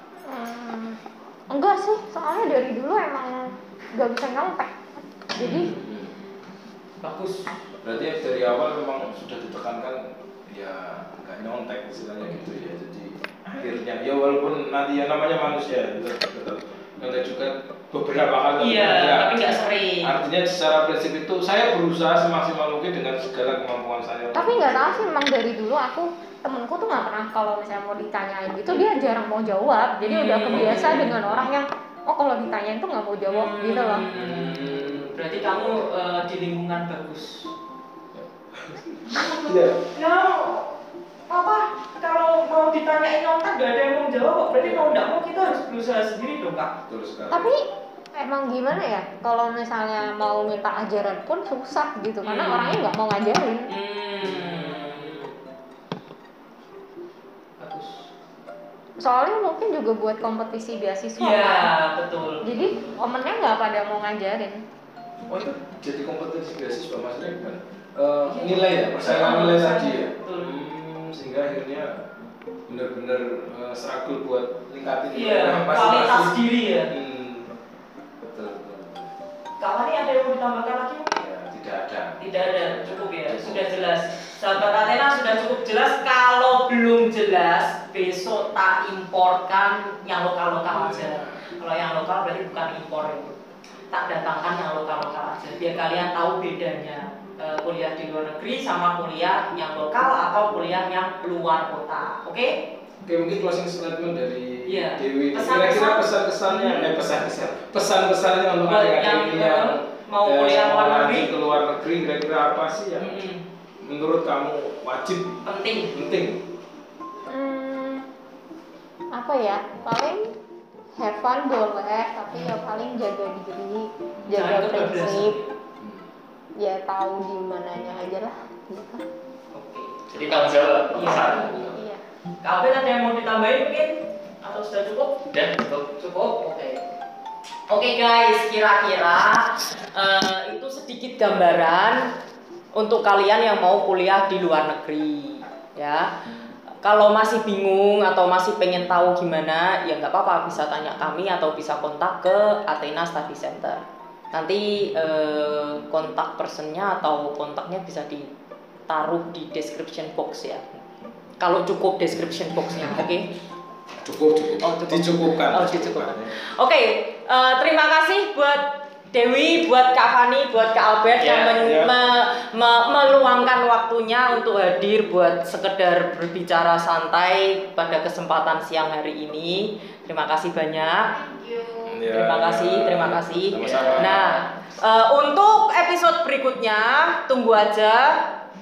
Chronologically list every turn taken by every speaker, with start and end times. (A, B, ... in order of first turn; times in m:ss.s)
0:00.3-0:04.7 A
0:05.3-0:05.7 A
0:05.4-0:05.7 B
0:05.4-0:06.1 C
0:07.0-0:07.5 B
0:07.8-0:25.1 C
0:12.2-0:12.5 B
0:18.6-0:20.1 B
0:24.4-0:34.1 A
0:30.0-0:31.2 B
0:30.5-0:31.5 C
0:33.3-0:37.5 B
0:34.1-0:35.1 C
0:38.1-0:39.8 C
0:39.9-0:40.8 B
0:41.3-0:46.8 B
0:44.5-0:45.0 C
0:46.9-0:47.5 C
0:47.3-0:53.7 A
0:52.2-0:53.0 B
0:53.7-0:55.3 B
0:54.4-0:54.9 C
0:57.6-0:58.1 B
0:59.0-1:01.7 A
1:01.2-1:03.0 B
1:02.4-1:04.6 A
1:05.4-1:12.0 C
1:08.3-1:10.5 B
1:12.7-1:16.4 C
1:15.1-1:16.9 B
1:16.9-1:17.5 C
1:18.3-1:19.1 C
1:19.6-1:21.2 B
1:21.1-1:23.7 C
1:22.2-1:33.4 B
1:30.7-1:31.4 C
1:33.9-1:42.6 B
1:43.1-1:53.2 C
1:44.6-1:46.9 B
1:48.6-1:51.3 B
1:53.0-1:53.4 B
1:53.8-1:56.4 C
1:55.4-1:55.9 B
1:57.3-1:58.1 A
1:59.1-2:00.3 A
2:01.0-2:05.4 A
2:02.3-2:02.6 B
2:04.2-2:04.5 C
2:04.3-2:05.5 B
2:05.8-2:06.1 C
2:06.6-2:09.0 A
2:09.5-2:10.0 B
2:10.1-2:11.8 D
2:10.9-2:11.6 B
2:11.7-2:12.0 A
2:12.4-2:15.2 B
2:15.3-2:15.9 D
2:16.0-2:16.8 B
2:17.7-2:22.1 B
2:22.7-2:26.1 B
2:26.8-2:38.3 B
2:38.9-2:40.6 B
2:41.4-2:43.3 B
2:44.0-2:46.3 C
2:44.6-3:01.1 B
2:51.2-2:51.6 D
2:51.6-2:51.9 C
3:01.1-3:02.0 A
3:01.9-3:04.3 C
3:02.1-3:08.2 B
3:03.6-3:04.3 D